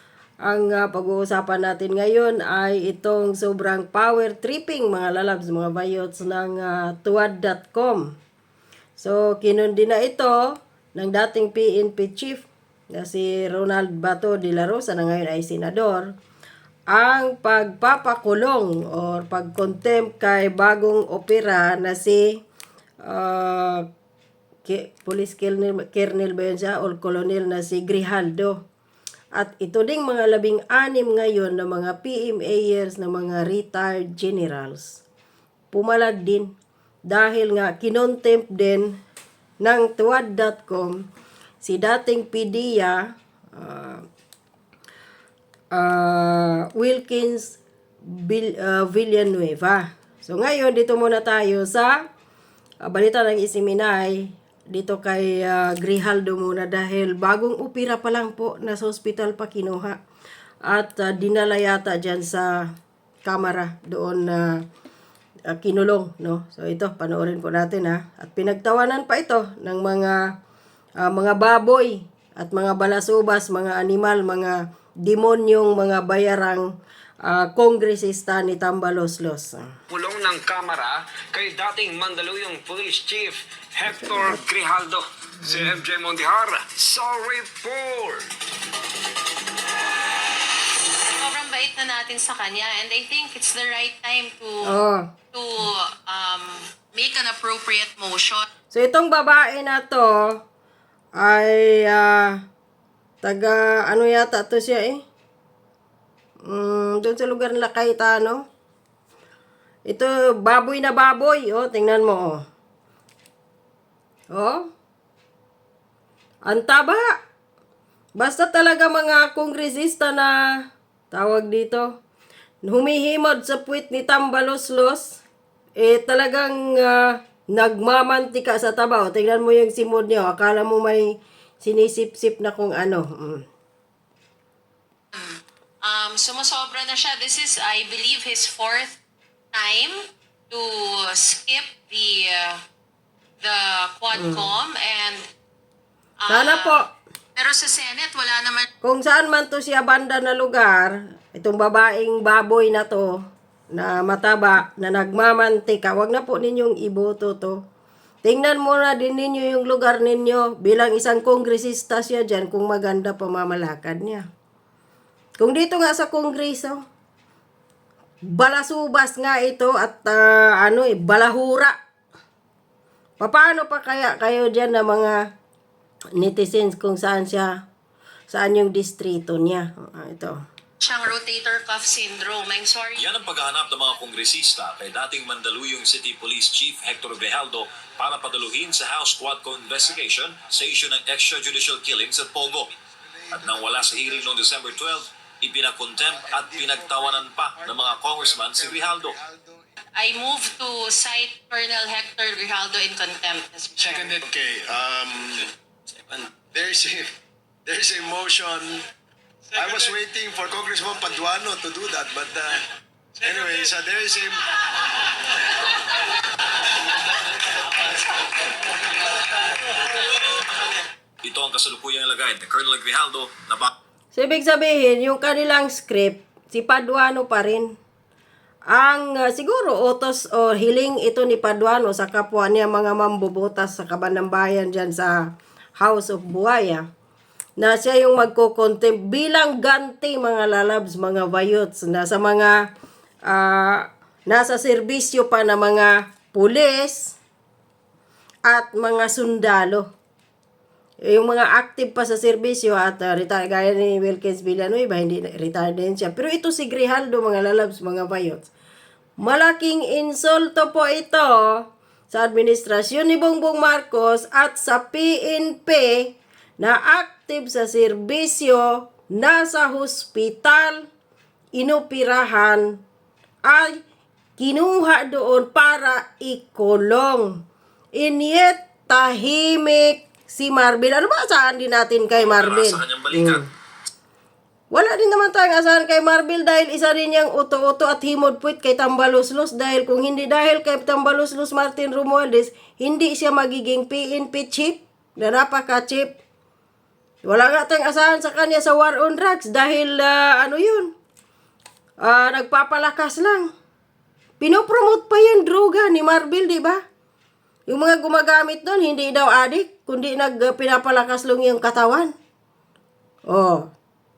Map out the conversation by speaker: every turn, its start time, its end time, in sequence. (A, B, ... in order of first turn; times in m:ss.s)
0:00.4-0:08.1 A
0:09.0-0:10.4 A
0:11.0-0:16.1 A
0:16.9-0:22.2 A
0:23.0-0:23.8 A
0:24.6-0:28.6 A
0:29.4-0:35.0 A
0:35.7-0:36.5 A
0:37.1-0:38.9 A
0:39.6-0:41.0 A
0:41.6-0:43.0 A
0:43.6-0:44.0 A
0:45.8-0:47.6 A
0:48.1-0:52.0 A
0:52.8-1:00.0 A
1:00.6-1:02.6 A
1:03.2-1:04.6 A
1:05.5-1:10.2 A
1:11.0-1:16.6 A
1:17.2-1:19.7 A
1:19.9-1:28.3 B
1:31.2-1:34.7 C
1:34.7-1:35.1 A
1:35.3-1:38.5 C
1:38.7-1:40.4 A
1:41.2-1:42.4 A
1:43.2-1:45.0 A
1:46.5-1:48.4 A
1:49.9-1:52.4 A
1:54.3-1:54.7 A
1:56.5-1:57.0 A
1:58.2-2:00.3 A
2:01.1-2:01.9 A
2:02.6-2:05.2 A
2:05.8-2:11.1 A
2:11.6-2:13.4 A
2:15.1-2:19.0 C
2:19.5-2:20.0 C
2:20.5-2:22.6 C
2:23.4-2:25.2 C
2:24.2-2:24.5 A
2:26.2-2:26.8 C
2:26.3-2:26.8 A
2:27.4-2:28.7 C
2:28.8-2:33.1 A
2:33.7-2:37.6 A
2:38.2-2:44.2 A
2:45.4-2:46.8 A
2:48.3-2:51.8 A
2:53.2-2:55.2 A
2:56.2-2:57.5 A
2:58.3-3:00.4 A
3:00.8-3:03.1 C
3:03.0-3:12.7 D
3:13.1-3:14.4 E
3:13.3-3:19.2 D
3:16.1-3:19.6 E
3:20.0-3:24.2 C
3:23.9-3:25.5 E
3:26.1-3:28.9 E
3:29.5-3:32.7 E
3:33.2-3:34.4 E
3:41.2-3:43.7 D
3:44.1-3:47.7 A
3:48.7-3:55.2 A
3:55.8-3:56.8 A
3:57.6-4:02.6 A
4:03.3-4:07.2 A
4:08.4-4:09.9 A
4:11.1-4:18.5 A
4:19.2-4:26.1 A
4:26.6-4:30.8 A
4:31.6-4:32.7 A
4:33.4-4:33.8 A
4:34.4-4:37.3 A
4:38.0-4:43.4 A
4:42.1-4:43.4 D
4:44.7-4:56.2 A
4:57.2-5:00.9 A
5:02.0-5:03.5 A
5:04.4-5:06.8 A
5:07.7-5:12.1 A
5:13.3-5:13.7 A